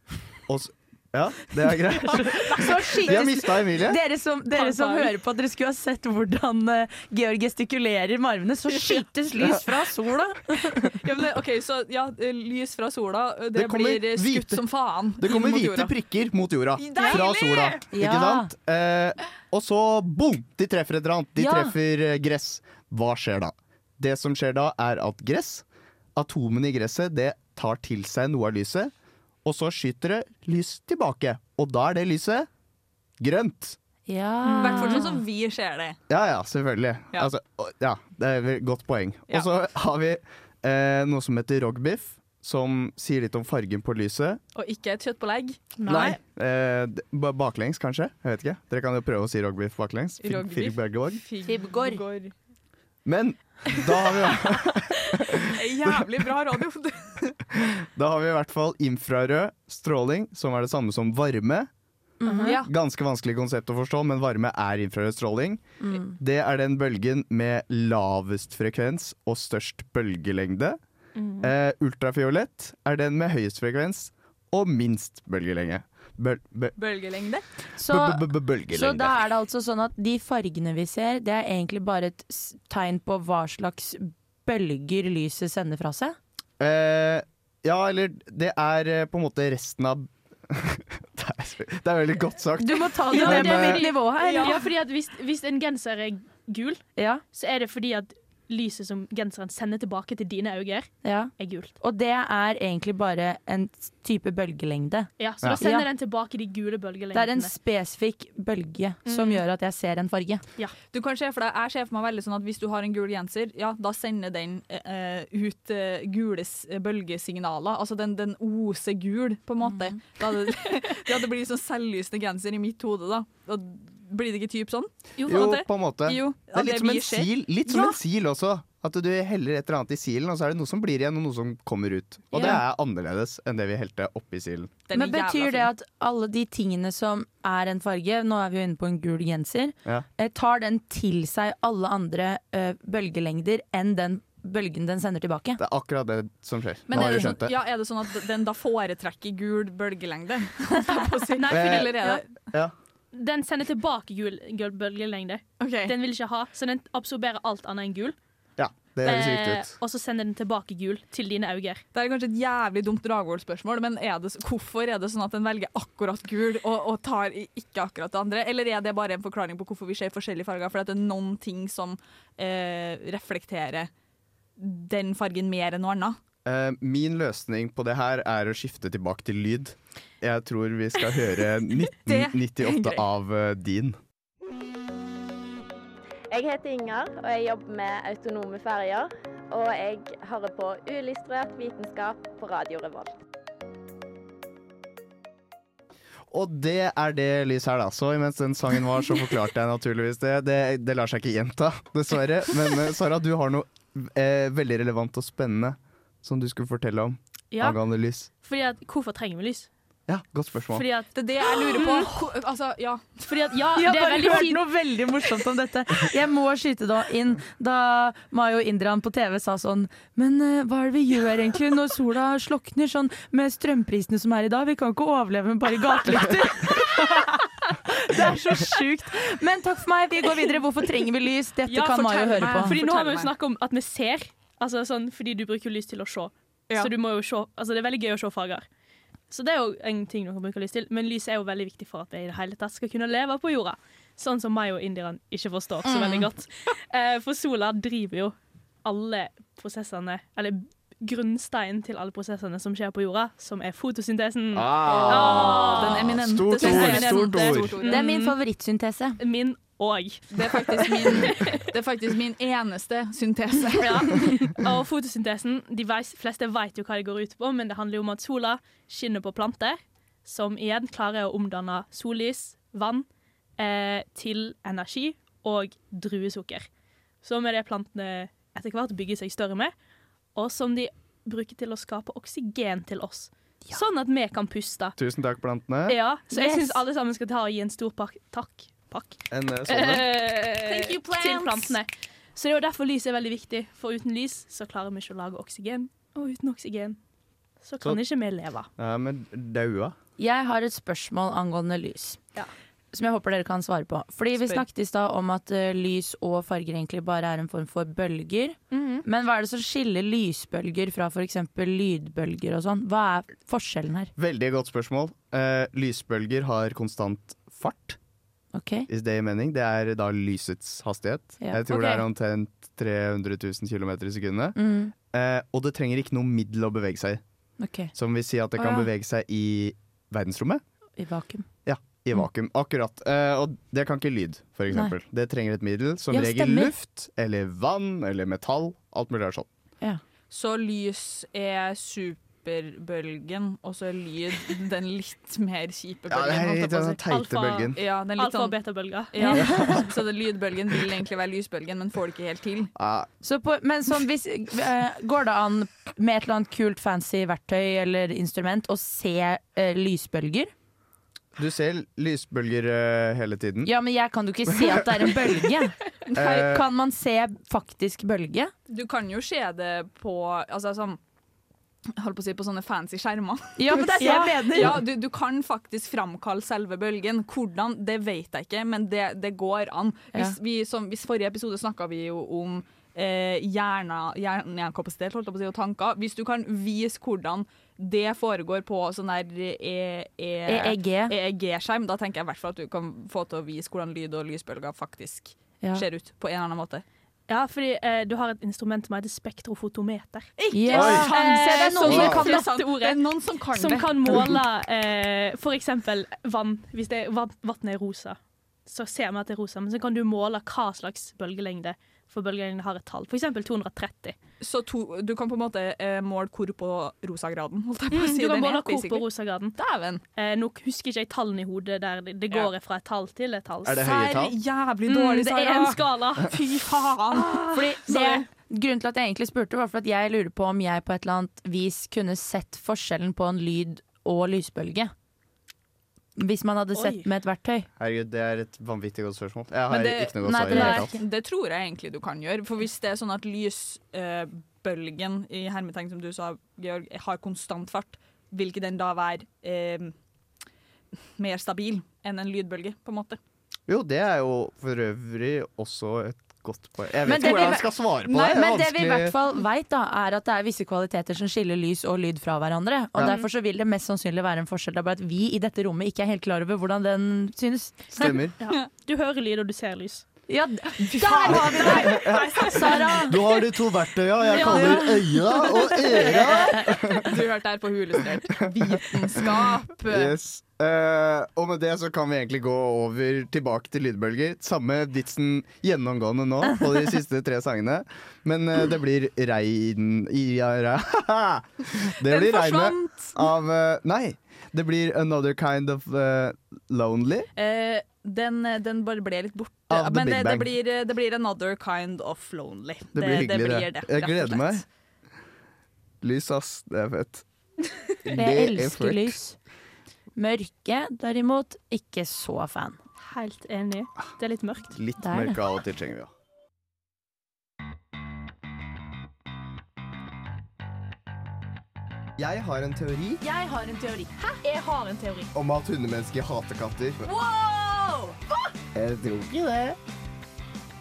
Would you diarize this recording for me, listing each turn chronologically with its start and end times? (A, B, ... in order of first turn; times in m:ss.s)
0:00.5-0:04.0 A
0:02.1-0:10.9 B
0:04.5-0:05.1 C
0:11.0-0:15.9 D
0:13.5-0:14.6 A
0:15.2-0:28.9 A
0:16.8-0:17.8 D
0:17.9-0:18.5 B
0:21.4-0:21.8 B
0:29.4-0:32.5 A
0:33.2-0:33.8 A
0:34.1-0:35.2 B
0:34.6-0:36.0 D
0:34.6-0:34.9 C
0:36.1-0:44.4 A
0:44.5-0:45.7 D
0:45.8-0:46.1 B
0:45.9-0:46.1 C
0:45.9-0:51.2 A
0:50.2-0:52.3 D
0:51.4-0:52.0 B
0:53.0-0:56.0 A
0:55.4-0:57.4 D
0:57.5-1:01.7 A
1:02.2-1:02.6 B
1:02.2-1:02.6 C
1:02.4-1:02.7 D
1:02.6-1:05.6 A
1:05.8-1:06.1 B
1:06.2-1:10.8 A
1:11.2-1:11.5 C
1:11.4-1:16.7 A
1:16.8-1:17.4 D
1:17.8-1:26.2 B
1:17.8-1:19.2 A
1:26.6-1:33.8 A
1:32.6-1:34.6 B
1:33.1-1:41.7 C
1:34.2-1:34.7 D
1:37.0-1:37.2 B
1:41.0-1:45.9 B
1:45.2-1:47.5 C
1:47.1-1:50.4 B
1:49.1-1:49.3 C
1:50.9-2:08.0 D
2:05.2-2:14.7 A
2:14.9-2:15.7 D
2:14.9-2:25.6 B
2:25.6-2:27.5 A
2:26.9-2:32.2 D
2:31.3-2:32.2 C
2:31.5-2:32.0 A
2:33.1-2:38.1 C
2:35.6-2:36.0 D
2:38.6-2:39.7 A
2:39.0-2:41.8 C
2:41.9-2:53.9 D
2:54.6-2:56.2 D
2:56.4-3:04.0 A
3:02.0-3:03.0 D
3:06.3-3:13.1 E
3:16.3-3:28.3 A
3:27.5-3:27.8 C
3:28.4-3:29.7 C
3:30.1-3:30.9 A
3:30.7-3:32.1 C
3:31.1-3:33.2 D
3:33.3-3:34.6 C
3:33.7-3:52.8 B
3:51.7-3:58.6 C
3:52.4-3:53.3 D
3:59.3-4:18.4 C
4:05.8-4:06.2 B
4:14.5-4:17.7 A
4:14.8-4:18.0 D
4:17.9-4:19.2 B
4:19.2-4:21.6 C
4:20.3-4:24.2 D
4:23.8-4:33.1 C
4:33.6-4:36.7 C
4:37.2-4:39.7 C
4:40.3-4:45.0 C
4:45.0-4:46.0 A
4:45.8-4:57.0 C
4:46.3-4:46.8 B
4:49.3-4:50.2 A
4:50.6-4:51.8 D
4:57.6-4:58.7 C
4:58.8-4:59.9 A
5:00.2-5:02.2 B
5:02.9-5:14.1 B
5:08.7-5:09.0 C
5:14.2-5:18.0 A
5:18.5-5:18.9 B
5:18.9-5:24.6 A
5:21.7-5:22.0 D
5:24.6-5:24.9 B
5:25.1-5:27.2 A
5:27.6-5:27.9 B
5:27.9-5:30.6 A
5:28.6-5:28.9 B
5:31.0-5:31.4 B
5:31.6-5:39.5 A
5:34.7-5:34.9 B
5:36.1-5:36.7 B
5:40.3-5:47.0 D
5:46.1-5:47.8 A
5:47.1-5:49.5 C
5:47.7-5:52.7 D
5:49.3-5:49.8 B
5:49.5-5:49.8 A
5:52.8-5:53.1 A
5:53.2-6:00.5 B
6:01.3-6:03.7 A
6:03.6-6:08.5 B
6:04.5-6:04.8 A
6:06.1-6:06.6 A
6:06.1-6:06.4 D
6:08.7-6:11.0 D
6:12.0-6:36.8 D
6:13.6-6:14.8 B
6:14.0-6:14.7 C
6:30.5-6:31.1 B
6:37.3-6:43.0 C
6:40.4-6:44.4 D
6:40.5-6:42.3 B
6:40.7-6:41.1 A
6:41.8-6:42.2 A
6:43.5-6:54.2 C
6:54.4-6:59.0 D
6:57.9-6:59.5 C
6:59.6-7:00.0 D
7:00.2-7:04.0 C
7:03.6-7:04.3 A
7:03.8-7:07.5 D
7:04.9-7:06.4 C
7:07.2-7:08.2 C
7:07.5-7:14.9 B
7:16.2-7:17.7 B
7:16.8-7:17.1 C
7:17.8-7:20.9 A
7:19.7-7:29.9 D
7:20.2-7:20.9 B
7:20.6-7:20.8 C
7:31.2-7:33.2 D
7:33.7-7:39.2 A
7:37.0-7:47.9 B
7:47.9-7:48.3 A
7:48.4-7:50.0 C
7:50.3-7:53.2 B
7:50.9-7:53.0 D
7:51.3-7:57.1 A
7:54.4-7:54.8 C
7:54.4-7:54.9 B
7:57.0-8:00.1 D
7:58.6-7:58.9 A
7:59.8-8:17.3 A
8:12.0-8:13.1 D
8:17.4-8:24.6 D
8:19.7-8:20.5 A
8:22.9-8:24.6 A
8:26.0-8:27.2 A
8:28.0-8:29.2 A
8:28.1-8:29.4 B
8:30.2-8:32.8 B
8:33.0-8:34.7 C
8:34.7-8:36.1 A
8:35.0-8:35.4 B
8:42.2-8:43.2 A
8:43.2-8:44.4 B
8:44.4-8:45.3 C
8:45.3-8:47.1 A
8:47.1-8:48.1 B
8:48.7-8:49.8 A